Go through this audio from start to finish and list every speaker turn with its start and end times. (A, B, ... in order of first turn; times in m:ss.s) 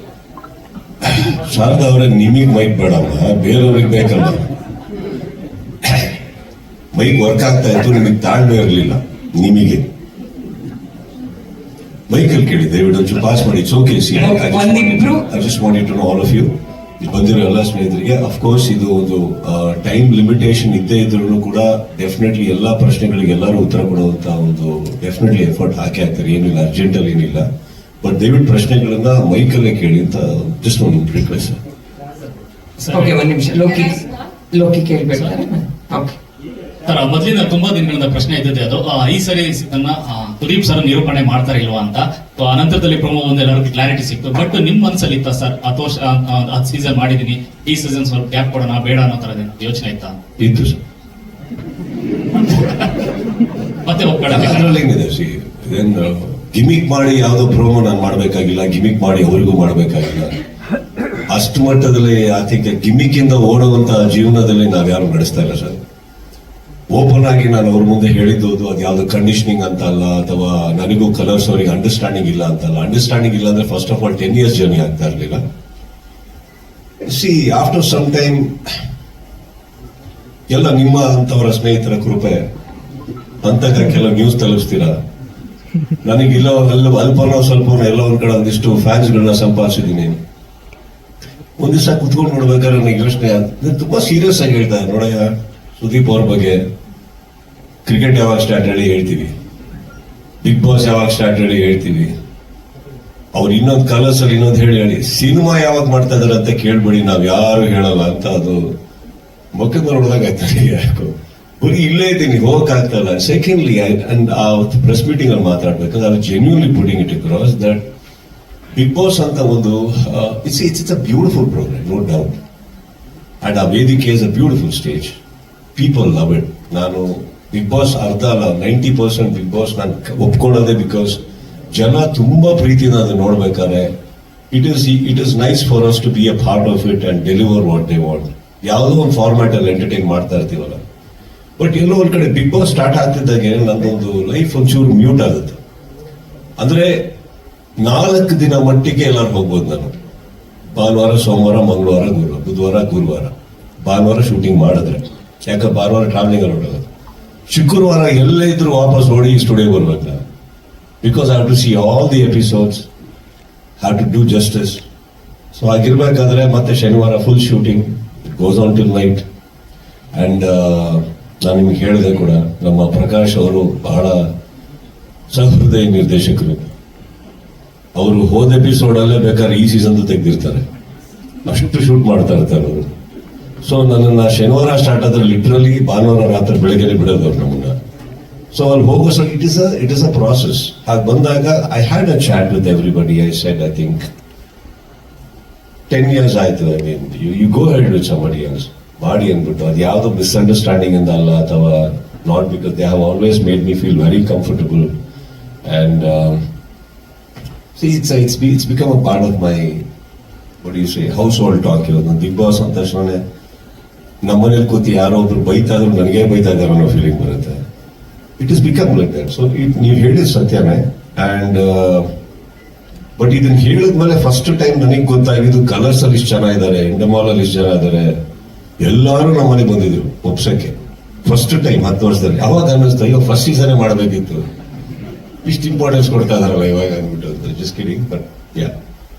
0:01.0-0:04.5 A
0:05.8-0:06.1 A
0:06.9-0:09.8 A
0:12.1-0:27.4 A
0:14.1-0:15.2 B
0:28.0-0:31.6 A
0:32.8-0:33.1 C
0:32.9-0:36.2 B
0:36.9-0:50.2 C
0:50.4-0:50.8 A
0:52.5-0:52.9 C
0:53.8-0:54.8 C
0:54.2-1:00.4 A
1:01.3-1:05.8 A
1:06.9-1:15.4 A
1:17.0-1:18.5 A
1:20.5-1:22.4 A
1:23.4-1:25.0 A
1:26.0-1:30.2 A
1:31.6-1:36.6 A
1:37.8-1:39.3 A
1:40.4-1:42.1 A
1:43.3-1:48.7 A
1:49.6-1:57.8 A
1:58.7-2:02.4 A
2:03.4-2:05.2 A
2:05.8-2:11.2 A
2:11.7-2:13.9 A
2:14.5-2:20.8 A
2:21.6-2:25.6 A
2:26.6-2:27.0 A
2:27.8-2:29.9 A
2:30.8-2:36.9 A
2:37.5-2:40.2 A
2:41.0-2:42.9 A
2:43.8-2:44.8 A
2:45.5-2:49.2 A
2:50.1-2:54.3 A
2:55.3-2:56.7 A
2:58.0-3:00.6 A
3:01.5-3:02.9 A
3:03.6-3:07.7 A
3:08.5-3:14.1 A
3:15.9-3:24.9 A
3:25.6-3:26.4 A
3:27.8-3:29.8 A
3:30.6-3:33.2 A
3:34.2-3:37.6 A
3:38.4-3:42.1 A
3:43.2-3:48.2 A
3:48.8-3:50.7 A
3:51.2-3:54.4 A
3:55.4-3:58.7 A